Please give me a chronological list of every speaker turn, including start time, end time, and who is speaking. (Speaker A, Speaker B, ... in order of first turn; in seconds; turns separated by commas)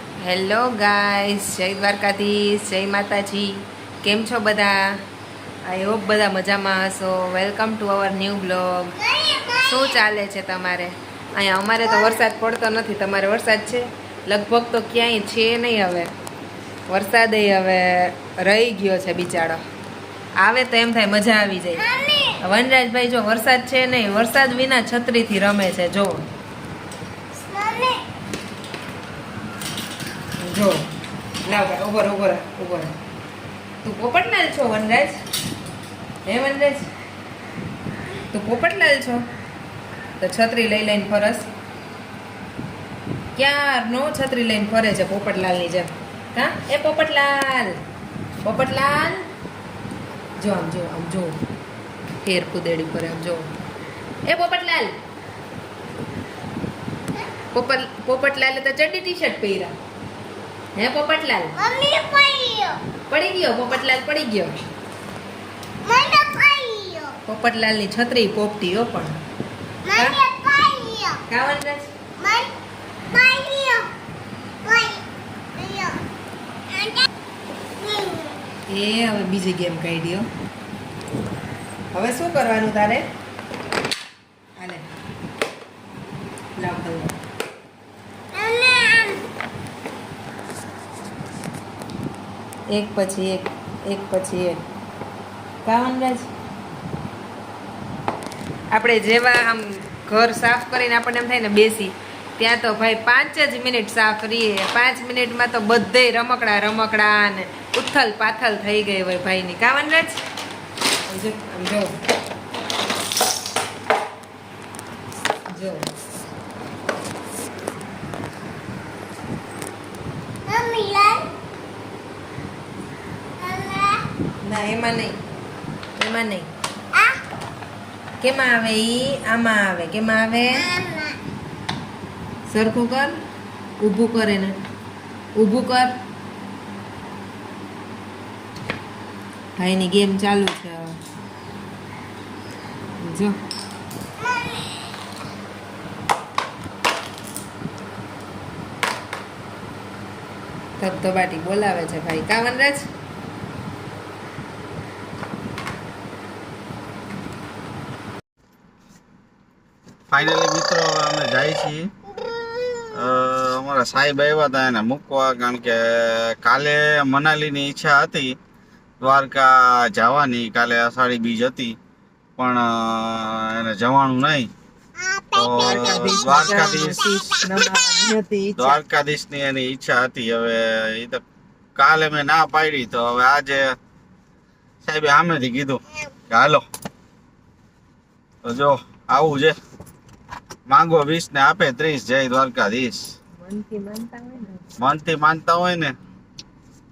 Speaker A: 0.2-5.0, Speaker A: 5.7-16.1, Speaker B: 9.2-9.6, Speaker A: 16.9-19.6, Speaker A: 20.4-21.9, Speaker B: 21.9-22.3, Speaker A: 22.4-26.3, Speaker B: 27.4-28.0, Speaker A: 30.4-30.9, Speaker A: 31.4-32.9, Speaker A: 33.8-35.2, Speaker A: 36.2-36.9, Speaker A: 38.3-39.3, Speaker A: 40.2-41.5, Speaker A: 43.4-47.8, Speaker A: 48.4-49.3, Speaker A: 50.4-51.4, Speaker A: 52.2-53.5, Speaker A: 54.2-55.0, Speaker A: 57.5-59.8, Speaker A: 60.8-61.6, Speaker B: 61.6-62.8, Speaker A: 63.1-64.6, Speaker B: 65.8-67.2, Speaker A: 67.3-69.2, Speaker B: 69.9-71.2, Speaker A: 69.9-70.2, Speaker A: 71.3-71.9, Speaker B: 72.2-72.5, Speaker B: 73.1-73.9, Speaker B: 74.6-75.0, Speaker B: 75.6-76.0, Speaker B: 76.7-77.0, Speaker B: 77.8-78.4, Speaker A: 78.7-80.3, Speaker A: 81.9-83.0, Speaker A: 84.6-84.9, Speaker A: 86.6-87.2, Speaker B: 88.3-89.2, Speaker A: 92.7-94.6, Speaker A: 95.6-96.3, Speaker A: 98.7-110.2, Speaker A: 111.1-111.9, Speaker A: 115.5-115.9, Speaker B: 120.5-121.3, Speaker B: 123.4-124.0, Speaker A: 124.4-125.2, Speaker A: 126.0-126.5, Speaker A: 128.2-130.7, Speaker B: 130.8-131.2, Speaker A: 132.5-133.2, Speaker A: 133.8-134.6, Speaker A: 135.4-136.0, Speaker A: 139.6-141.0, Speaker A: 143.0-143.4, Speaker A: 150.8-152.9, Speaker C: 160.1-161.9, Speaker C: 162.9-168.3, Speaker C: 169.0-171.8, Speaker C: 172.4-174.5, Speaker B: 175.0-176.3, Speaker C: 175.3-177.1, Speaker A: 175.4-178.8, Speaker C: 178.6-181.2, Speaker C: 181.8-183.7, Speaker C: 184.8-186.6, Speaker C: 188.4-189.6, Speaker C: 190.7-193.1, Speaker A: 193.4-194.8, Speaker C: 194.8-195.9